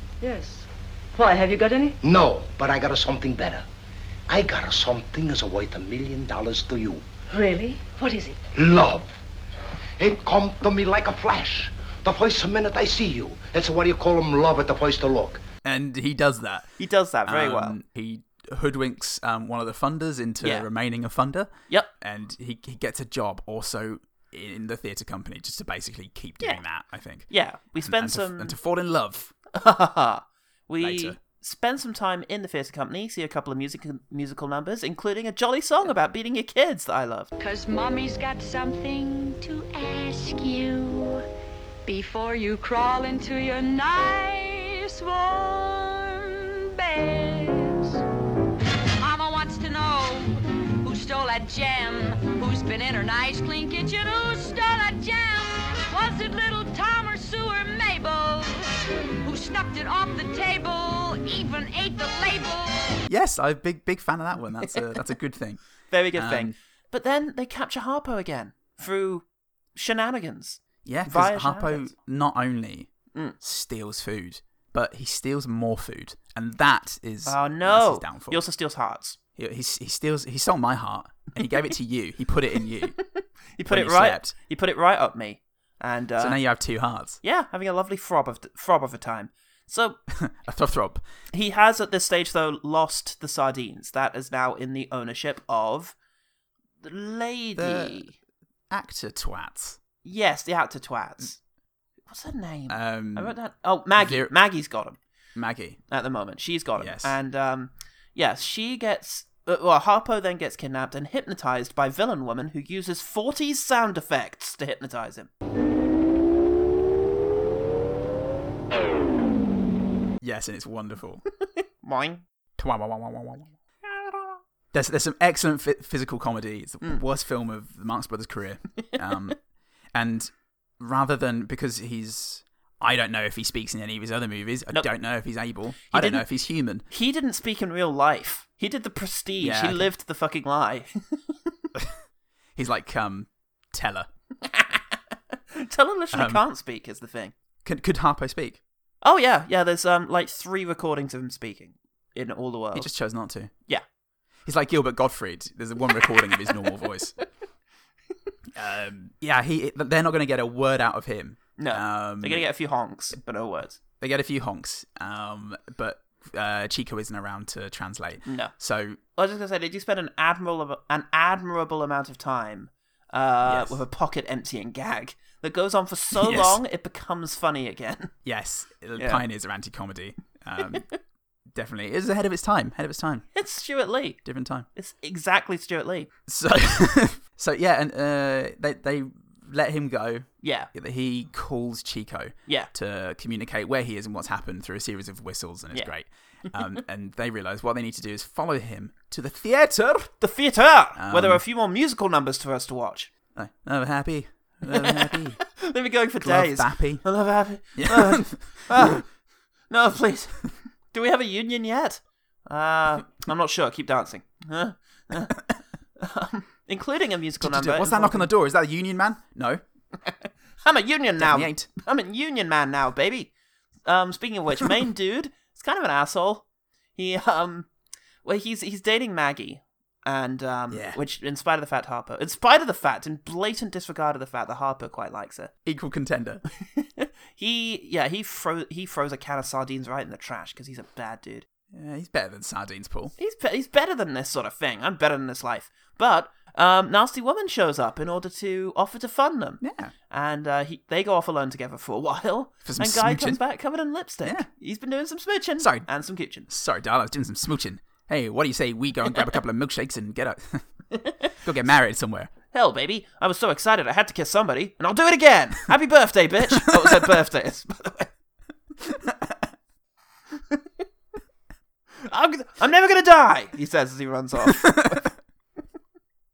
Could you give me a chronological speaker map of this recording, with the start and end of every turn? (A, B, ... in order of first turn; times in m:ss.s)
0:00.2-0:02.0 A
0:02.0-0:03.6 B
0:04.3-0:07.0 B
0:07.3-0:08.4 A
0:08.5-0:09.1 B
0:10.0-0:15.4 B
0:15.6-0:16.7 C
0:16.8-0:17.8 D
0:17.2-0:29.3 C
0:20.4-0:20.7 D
0:27.3-0:28.6 D
0:29.5-0:37.3 D
0:30.8-0:31.2 C
0:37.4-0:41.2 E
0:41.8-0:48.0 E
0:49.0-1:03.0 E
1:03.1-1:05.6 C
1:05.9-1:11.9 D
1:06.1-1:06.5 C
1:10.8-1:18.4 C
1:17.2-1:19.2 D
1:19.4-1:23.0 C
1:23.6-1:26.4 D
1:23.7-1:24.3 C
1:26.2-1:27.2 C
1:27.2-1:30.0 D
1:30.1-1:31.0 C
1:31.3-1:35.9 D
1:36.8-1:38.2 D
1:37.6-1:38.0 C
1:38.7-1:39.8 C
1:40.0-1:41.4 D
1:42.1-1:45.0 D
1:42.7-1:43.3 C
1:44.0-1:44.3 C
1:45.3-1:45.8 C
1:45.9-1:55.3 D
1:46.8-1:47.2 C
2:00.2-2:01.2 C
2:01.8-2:02.2 D
2:02.6-2:03.5 C
2:03.8-2:04.4 D
2:04.7-2:09.4 C
2:09.9-2:16.8 C
2:15.8-2:16.2 D
2:16.9-2:21.3 D
2:19.4-2:19.9 C
2:22.6-2:24.1 C
2:24.4-2:24.8 D
2:25.5-2:27.3 D
2:26.1-2:26.4 C
2:27.6-2:28.6 C
2:29.0-2:32.9 D
2:32.7-2:33.5 C
2:34.4-2:37.1 C
2:38.5-2:42.5 C
2:41.6-2:43.8 D
2:44.0-2:49.0 C
2:48.2-2:48.5 D
2:49.1-2:58.1 D
2:53.4-2:53.8 C
2:56.1-2:56.6 C
2:58.2-3:00.9 C
2:59.0-2:59.2 D
3:01.5-3:03.3 C
3:03.3-3:04.2 D
3:04.2-3:04.7 C
3:04.7-3:06.1 D
3:06.3-3:20.2 C
3:10.4-3:10.7 D
3:20.2-3:23.1 D
3:21.0-3:21.4 C
3:23.3-3:25.4 C
3:24.7-3:29.0 D
3:26.2-3:27.1 C
3:27.7-3:29.0 C
3:29.7-3:35.4 D
3:36.0-3:38.3 D
3:37.4-3:39.6 C
3:40.0-3:43.3 D
3:41.2-3:41.7 C
3:43.8-3:46.4 D
3:47.0-3:47.7 D
3:48.2-3:55.5 D
3:50.7-3:51.0 C
3:55.6-3:56.4 C
3:56.6-4:01.4 D
4:01.7-4:03.1 C
4:03.2-4:16.5 D
4:09.6-4:09.9 C
4:12.6-4:13.4 C
4:14.2-4:14.5 C
4:15.6-4:15.9 C
4:16.5-4:20.6 C
4:20.9-4:21.2 D
4:21.4-4:22.3 C
4:22.5-4:28.1 D
4:28.9-4:29.3 C
4:32.0-4:35.1 D
4:34.4-4:35.1 C